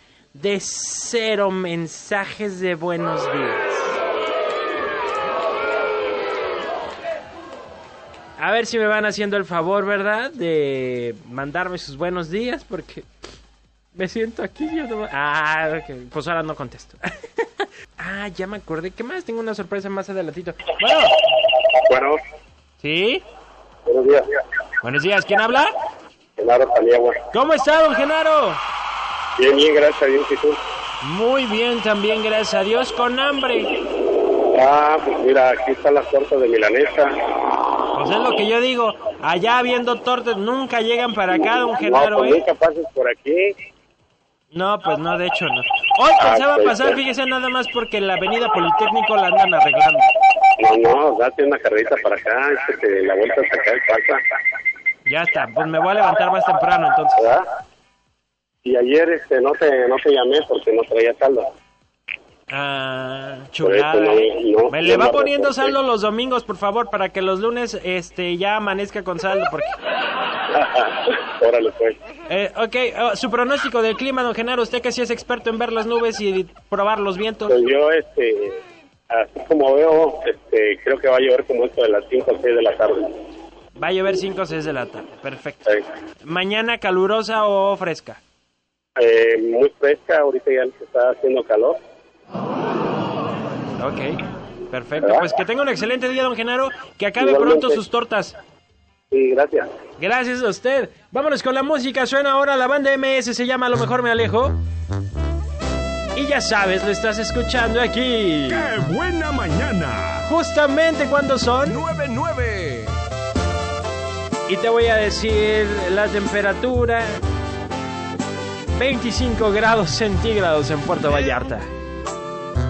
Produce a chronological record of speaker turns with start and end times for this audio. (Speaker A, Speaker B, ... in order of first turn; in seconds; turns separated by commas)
Speaker A: 0.3-4.0, Speaker A: 8.4-13.1, Speaker A: 13.9-21.1, Speaker B: 21.9-22.2, Speaker A: 22.8-23.2, Speaker B: 23.9-24.2, Speaker A: 24.8-25.7, Speaker B: 26.4-27.2, Speaker A: 27.3-28.6, Speaker B: 29.4-30.6, Speaker A: 31.0-33.7, Speaker B: 34.5-37.1, Speaker A: 37.9-42.4, Speaker B: 41.7-43.5, Speaker A: 44.5-50.1, Speaker B: 46.2-47.0, Speaker B: 50.6-54.2, Speaker A: 55.0-57.3, Speaker B: 57.2-57.4, Speaker B: 58.6-61.5, Speaker A: 62.5-69.8, Speaker B: 63.6-65.7, Speaker B: 70.5-72.0, Speaker A: 72.3-77.5, Speaker B: 77.5-78.6, Speaker B: 79.1-83.1, Speaker A: 83.8-85.7, Speaker A: 86.2-88.2, Speaker B: 89.0-91.8, Speaker A: 93.8-98.3, Speaker B: 97.2-97.8, Speaker B: 99.1-99.7, Speaker A: 100.0-104.6, Speaker A: 106.1-108.7, Speaker C: 108.5-110.3, Speaker A: 110.2-111.8, Speaker C: 111.6-113.0, Speaker A: 114.5-117.2, Speaker A: 118.7-121.7